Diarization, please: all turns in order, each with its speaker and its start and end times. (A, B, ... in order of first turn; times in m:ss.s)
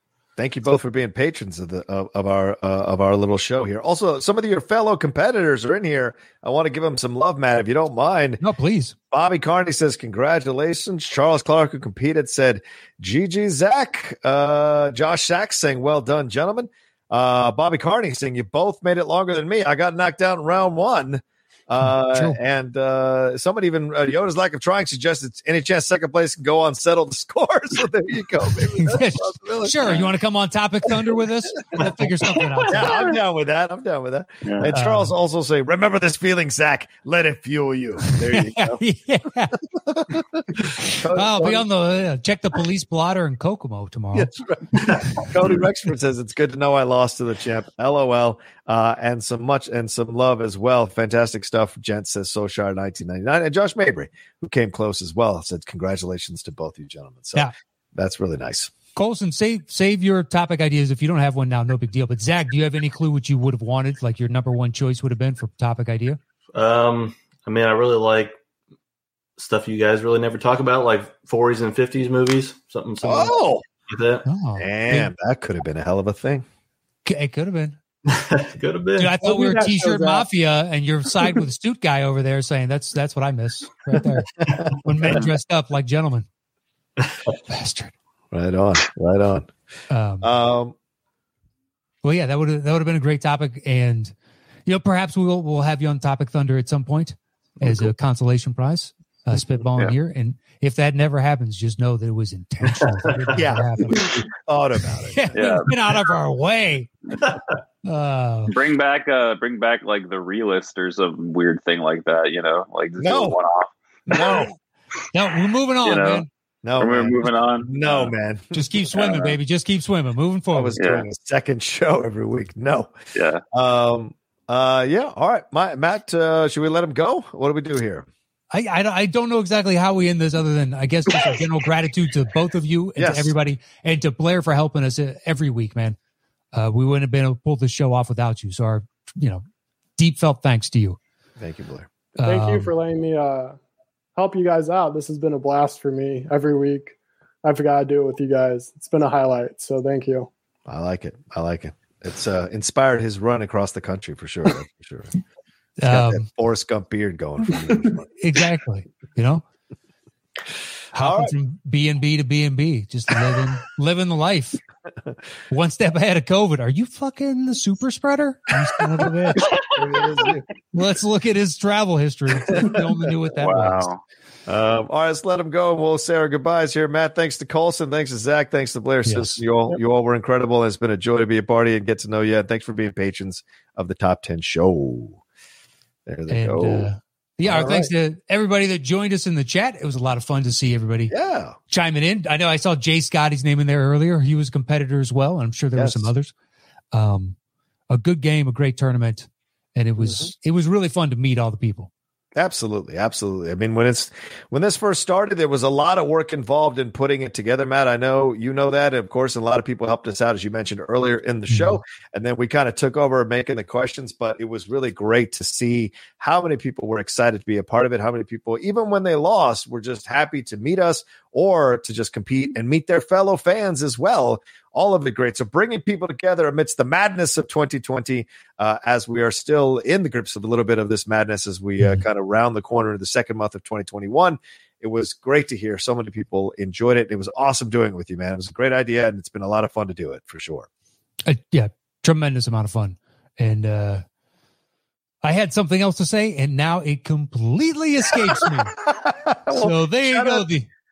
0:00.4-0:08.4 A
0:08.4-0:08.9 B
0:09.1-0:30.1 A
0:22.1-0:22.4 B
0:28.7-0:33.1 B
0:32.7-0:38.8 A
0:34.7-0:35.1 B
0:38.0-0:39.6 B
0:39.9-0:41.7 A
0:40.8-0:45.0 B
0:44.1-0:58.7 A
0:58.9-1:06.2 B
1:06.5-1:08.4 C
1:09.4-1:14.2 C
1:13.0-1:13.6 A
1:14.2-1:15.1 B
1:14.6-1:16.4 A
1:17.0-1:17.8 B
1:18.1-1:19.2 C
1:19.0-1:26.2 B
1:19.2-1:20.3 D
1:27.4-1:27.9 B
1:28.3-1:29.5 A
1:29.9-1:30.3 B
1:30.2-1:30.7 A
1:32.0-1:34.1 B
1:34.6-1:44.2 B
1:42.7-1:43.3 C
1:43.3-1:45.4 A
1:45.1-1:46.9 B
1:45.3-1:45.7 E
1:47.8-1:48.5 B
1:48.5-1:54.4 E
1:53.0-1:53.4 A
1:54.1-1:54.5 A
1:55.1-1:56.3 B
1:55.8-1:56.2 E
1:56.6-1:58.6 A
1:56.8-1:58.1 E
1:58.5-2:00.8 B
1:58.9-1:59.4 E
2:00.5-2:02.9 A
2:00.8-2:01.0 E
2:03.1-2:03.4 E
2:03.5-2:08.1 A
2:08.5-2:16.0 B
2:13.0-2:13.3 A
2:16.5-2:19.4 B
2:20.0-2:21.0 B
2:21.4-2:21.9 A
2:22.2-2:22.7 B
2:22.2-2:23.6 D
2:24.2-2:30.3 D
2:30.7-2:35.1 A
2:35.8-2:36.3 B
2:35.9-2:38.0 A
2:38.2-2:39.4 B
2:40.9-2:44.6 B
2:40.9-2:41.3 A
2:45.5-2:49.4 B
2:49.4-2:50.5 A
2:50.7-2:53.9 B
2:52.5-2:52.8 A
2:53.4-2:54.0 E
2:54.5-3:05.2 A
2:59.0-2:59.4 B
3:06.1-3:06.9 A
3:06.3-3:11.1 B
3:07.4-3:07.9 A
3:11.1-3:11.6 A
3:11.7-3:16.3 B
3:15.8-3:16.1 A
3:16.9-3:17.4 B
3:17.9-3:21.9 B
3:20.0-3:20.3 A
3:22.4-4:00.7 A
3:31.5-3:31.8 B
4:01.2-4:04.0 B
4:05.2-4:08.8 B
4:08.9-4:10.4 A
4:09.5-4:10.7 B